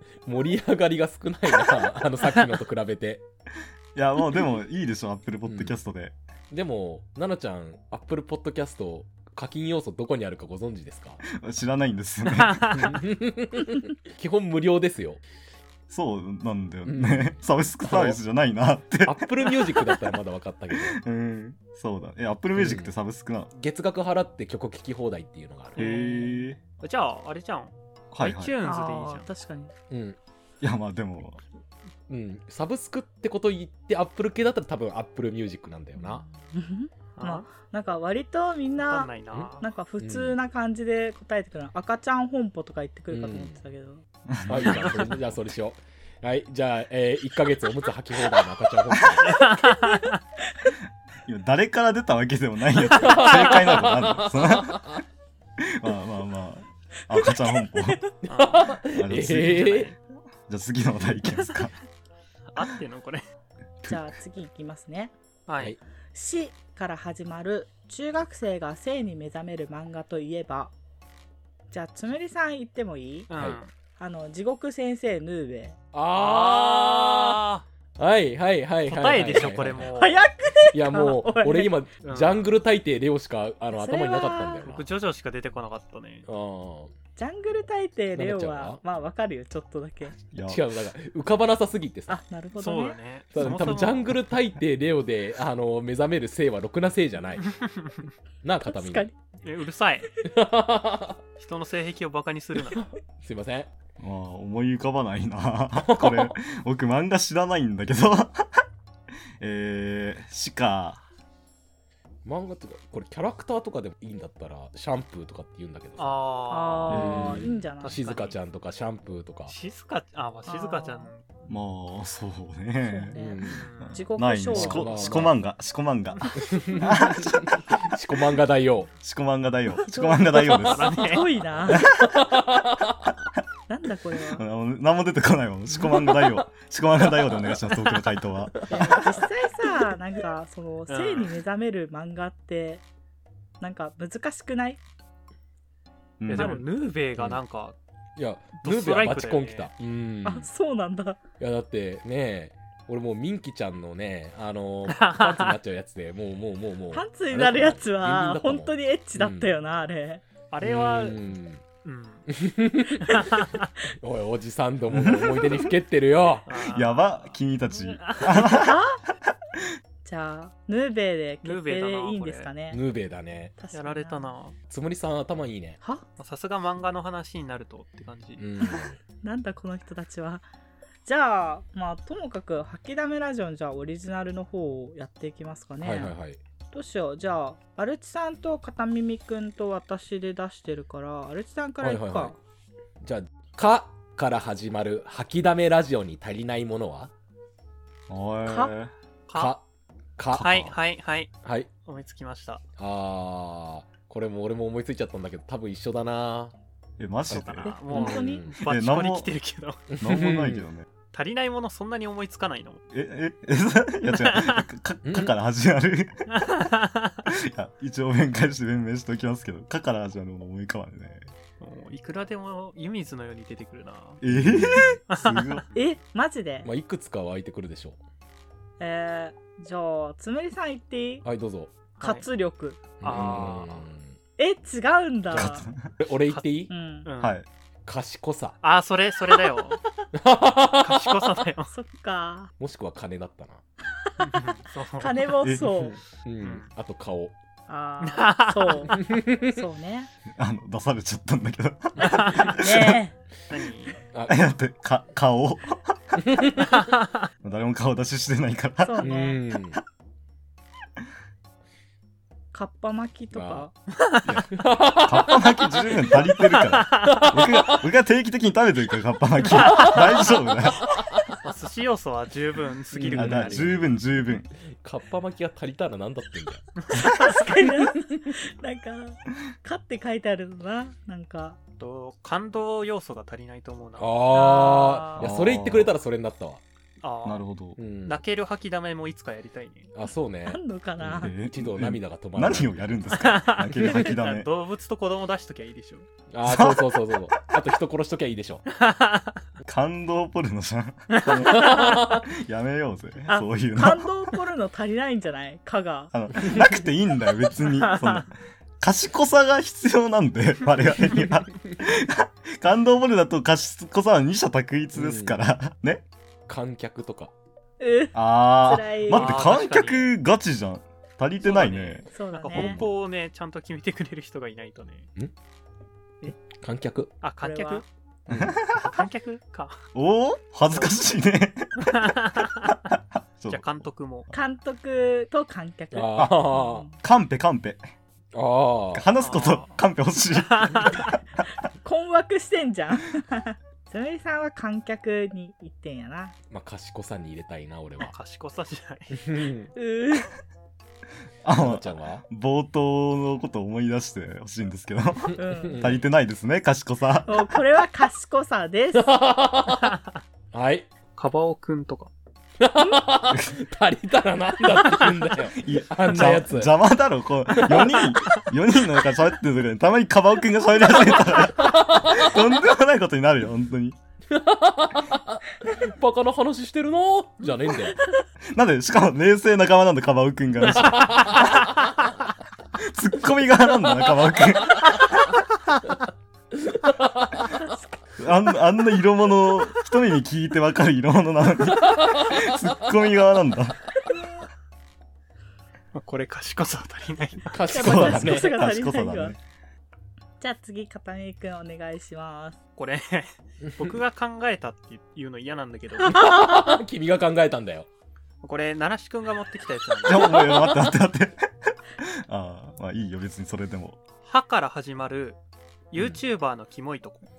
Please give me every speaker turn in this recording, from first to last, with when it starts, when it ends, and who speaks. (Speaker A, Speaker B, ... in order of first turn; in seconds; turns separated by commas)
Speaker A: 0.2-3.2, Speaker B: 3.9-6.2, Speaker A: 5.5-5.7, Speaker A: 6.5-11.2, Speaker B: 11.2-12.8, Speaker C: 12.2-13.0, Speaker A: 12.8-15.2, Speaker B: 15.9-19.8, Speaker A: 16.8-18.2, Speaker A: 19.0-21.0, Speaker B: 20.7-23.5, Speaker A: 22.5-22.9, Speaker A: 23.6-25.8, Speaker B: 25.8-26.6, Speaker C: 25.8-29.3, Speaker D: 25.8-26.4, Speaker B: 28.1-28.5, Speaker D: 28.6-29.7, Speaker A: 29.9-30.2, Speaker B: 30.6-31.4, Speaker A: 32.1-36.2, Speaker D: 36.0-44.0, Speaker C: 37.1-37.5, Speaker C: 38.8-39.7, Speaker A: 40.0-40.4, Speaker A: 43.1-43.5, Speaker B: 44.3-45.4, Speaker A: 44.5-49.4, Speaker C: 49.2-50.2, Speaker D: 49.6-50.1, Speaker B: 51.2-55.0, Speaker A: 52.9-55.0, Speaker C: 53.0-53.5, Speaker B: 55.6-58.0, Speaker D: 57.2-58.0, Speaker A: 58.2-59.9, Speaker C: 58.2-58.8, Speaker B: 58.9-59.8, Speaker C: 59.4-59.9, Speaker B: 60.5-61.7, Speaker C: 62.5-63.2, Speaker B: 63.8-64.1, Speaker D: 63.9-65.1, Speaker C: 65.5-65.7, Speaker D: 66.1-70.7, Speaker D: 71.7-73.3, Speaker C: 73.3-73.7, Speaker D: 74.0-75.8, Speaker A: 75.9-77.4, Speaker C: 76.1-77.7, Speaker A: 78.0-79.9, Speaker C: 78.8-80.2, Speaker D: 80.0-81.8, Speaker A: 80.7-84.8, Speaker C: 82.0-82.4, Speaker D: 83.7-84.7, Speaker C: 84.6-86.2, Speaker A: 86.3-86.9, Speaker D: 87.2-90.2, Speaker A: 88.1-88.8, Speaker B: 90.3-90.6, Speaker A: 90.5-92.2, Speaker D: 92.1-93.0, Speaker C: 92.6-94.1, Speaker A: 93.3-97.5, Speaker B: 93.4-93.8, Speaker C: 97.4-98.1, Speaker A: 98.4-99.1, Speaker D: 98.7-99.1, Speaker C: 99.4-100.1, Speaker A: 100.2-101.2, Speaker C: 101.4-102.8, Speaker A: 102.7-103.7, Speaker B: 104.0-108.6, Speaker A: 105.8-106.3, Speaker B: 109.4-111.0, Speaker A: 112.2-116.2, Speaker C: 116.0-118.3, Speaker D: 116.5-118.0, Speaker A: 116.9-119.5, Speaker C: 119.5-121.2, Speaker D: 120.5-121.1, Speaker B: 121.5-123.1, Speaker D: 122.8-125.3, Speaker A: 123.1-123.7, Speaker C: 123.5-124.0, Speaker B: 124.1-127.8, Speaker A: 124.5-125.3, Speaker A: 126.4-128.9, Speaker B: 129.0-131.1, Speaker D: 129.8-131.9, Speaker C: 130.5-131.4, Speaker A: 131.6-133.1, Speaker B: 131.7-132.2, Speaker D: 133.7-134.4, Speaker B: 134.3-139.0, Speaker A: 135.8-136.4, Speaker A: 137.2-137.6, Speaker A: 138.5-139.3, Speaker D: 138.7-142.8, Speaker C: 140.9-141.3, Speaker D: 143.6-144.8, Speaker B: 146.2-146.6, Speaker C: 146.3-147.8, Speaker A: 148.2-150.5, Speaker C: 148.6-149.7, Speaker D: 150.2-151.2, Speaker A: 151.4-159.5, Speaker C: 154.9-155.6, Speaker D: 156.9-160.2, Speaker C: 160.5-161.2, Speaker A: 160.6-161.6, Speaker C: 161.8-162.3, Speaker A: 162.3-163.4, Speaker C: 163.1-163.6, Speaker A: 164.0-166.5, Speaker B: 164.9-165.7, Speaker C: 166.4-168.5, Speaker B: 166.7-168.8, Speaker D: 168.3-169.0, Speaker D: 170.0-172.8, Speaker C: 171.4-172.5, Speaker A: 172.7-173.5, Speaker D: 173.6-174.3, Speaker C: 173.7-174.6, Speaker A: 174.7-175.8, Speaker C: 176.2-178.4, Speaker A: 178.4-179.0, Speaker D: 178.6-180.4, Speaker D: 181.0-186.1, Speaker A: 185.8-186.4, Speaker D: 186.7-192.3, Speaker A: 191.8-192.3, Speaker A: 193.0-197.1, Speaker B: 198.1-198.9, Speaker D: 198.4-198.7, Speaker C: 199.3-199.6, Speaker A: 199.3-199.6, Speaker A: 200.2-200.7, Speaker C: 200.4-201.3, Speaker A: 201.4-201.7, Speaker C: 201.8-202.6, Speaker A: 202.8-206.5, Speaker B: 207.0-207.7, Speaker C: 207.3-209.8, Speaker D: 207.6-208.4, Speaker A: 207.9-208.6, Speaker B: 208.6-209.3, Speaker A: 209.9-210.6, Speaker B: 209.9-210.9, Speaker C: 211.1-212.8, Speaker B: 212.9-216.2, Speaker C: 214.1-214.6, Speaker A: 215.0-215.3, Speaker C: 216.3-217.2, Speaker B: 217.2-221.2, Speaker C: 221.6-224.2, Speaker B: 224.2-225.7, Speaker A: 224.3-225.0, Speaker C: 225.1-225.6, Speaker D: 225.7-226.7, Speaker A: 226.6-228.0, Speaker D: 228.8-231.2, Speaker A: 231.2-231.7, Speaker C: 232.0-232.3, Speaker D: 232.0-232.8, Speaker C: 233.0-233.9, Speaker A: 233.0-234.1, Speaker D: 234.4-235.7, Speaker A: 235.3-236.7, Speaker B: 235.3-235.9, Speaker C: 236.3-237.4, Speaker D: 236.7-237.1, Speaker B: 237.2-237.4, Speaker A: 237.8-238.6, Speaker C: 238.6-239.8, Speaker A: 240.1-241.3, Speaker C: 240.7-241.7, Speaker D: 241.7-242.5, Speaker A: 242.6-243.6, Speaker D: 244.0-244.4, Speaker C: 244.2-245.4, Speaker D: 245.0-246.0, Speaker A: 245.5-247.3, Speaker C: 246.4-246.7, Speaker D: 247.7-250.1, Speaker C: 248.0-248.9, Speaker A: 248.9-249.5, Speaker B: 250.3-253.0, Speaker C: 252.0-252.6, Speaker D: 252.5-253.1, Speaker C: 253.5-254.0, Speaker A: 254.1-254.4, Speaker B: 254.2-256.2, Speaker A: 256.2-256.6, Speaker C: 256.6-257.2, Speaker B: 257.4-259.1, Speaker D: 258.8-259.4, Speaker A: 259.0-259.8, Speaker D: 262.5-263.7, Speaker A: 263.3-263.6, Speaker C: 264.0-264.3, Speaker A: 264.3-266.2, Speaker B: 264.9-270.9, Speaker C: 266.5-267.3, Speaker A: 267.1-267.8, Speaker C: 269.5-270.0, Speaker A: 269.7-269.9, Speaker C: 271.4-273.8, Speaker A: 272.9-273.8, Speaker B: 273.1-274.5, Speaker A: 274.8-276.7, Speaker D: 276.9-281.6, Speaker C: 281.8-284.1, Speaker A: 284.0-286.6, Speaker D: 284.3-285.3, Speaker B: 285.2-285.9, Speaker C: 287.0-287.4, Speaker B: 287.2-287.8, Speaker A: 287.8-288.2, Speaker C: 288.1-289.9, Speaker A: 289.9-292.8, Speaker D: 290.4-291.3, Speaker B: 291.0-294.5, Speaker C: 293.1-296.1, Speaker A: 296.3-298.6, Speaker B: 296.4-297.2, Speaker C: 298.7-299.4, Speaker B: 299.7-304.1, Speaker C: 301.1-301.9, Speaker A: 301.5-302.2, Speaker D: 303.3-306.8, Speaker B: 306.1-316.0, Speaker D: 307.6-308.2, Speaker A: 314.9-315.4, Speaker A: 316.5-317.3, Speaker D: 317.8-319.4, Speaker B: 318.1-322.9, Speaker C: 319.1-320.1, Speaker C: 321.4-325.1, Speaker D: 322.1-322.8, Speaker A: 326.5-327.1, Speaker C: 327.2-327.8, Speaker D: 327.4-327.8, Speaker A: 328.3-328.6, Speaker B: 328.3-329.0, Speaker C: 328.7-329.8, Speaker B: 329.9-331.9, Speaker C: 330.7-331.0, Speaker C: 331.8-332.8, Speaker B: 332.9-333.7, Speaker C: 333.5-334.3, Speaker D: 334.3-336.9, Speaker A: 335.9-336.9, Speaker B: 336.1-336.5, Speaker B: 337.0-337.8, Speaker A: 338.3-339.1, Speaker B: 338.9-341.2, Speaker C: 339.2-339.8, Speaker C: 340.3-341.1, Speaker D: 341.8-346.3, Speaker A: 346.5-348.1, Speaker C: 348.0-349.2, Speaker A: 349.1-349.7, Speaker D: 349.7-350.3, Speaker B: 351.4-357.4, Speaker A: 351.6-352.2, Speaker D: 355.4-355.9, Speaker A: 355.4-356.1, Speaker D: 357.3-359.1, Speaker A: 358.9-360.0, Speaker A: 360.5-360.9, Speaker C: 361.1-362.1, Speaker A: 362.6-366.7, Speaker B: 365.5-373.9, Speaker A: 367.5-368.1, Speaker A: 371.1-372.4, Speaker A: 374.3-378.0, Speaker B: 378.5-381.7, Speaker A: 380.6-381.8, Speaker B: 382.8-385.3, Speaker A: 386.5-387.7, Speaker B: 388.2-393.8, Speaker A: 391.7-392.7, Speaker C: 395.9-397.7, Speaker A: 397.5-398.6, Speaker D: 397.7-399.3, Speaker B: 397.7-399.4, Speaker D: 400.4-402.6, Speaker C: 402.8-406.1, Speaker A: 403.6-403.9, Speaker A: 406.0-407.9, Speaker D: 406.1-406.8, Speaker C: 408.4-410.4, Speaker B: 410.0-411.4, Speaker A: 410.3-410.9, Speaker B: 412.0-414.0, Speaker C: 414.2-415.4, Speaker C: 415.9-417.2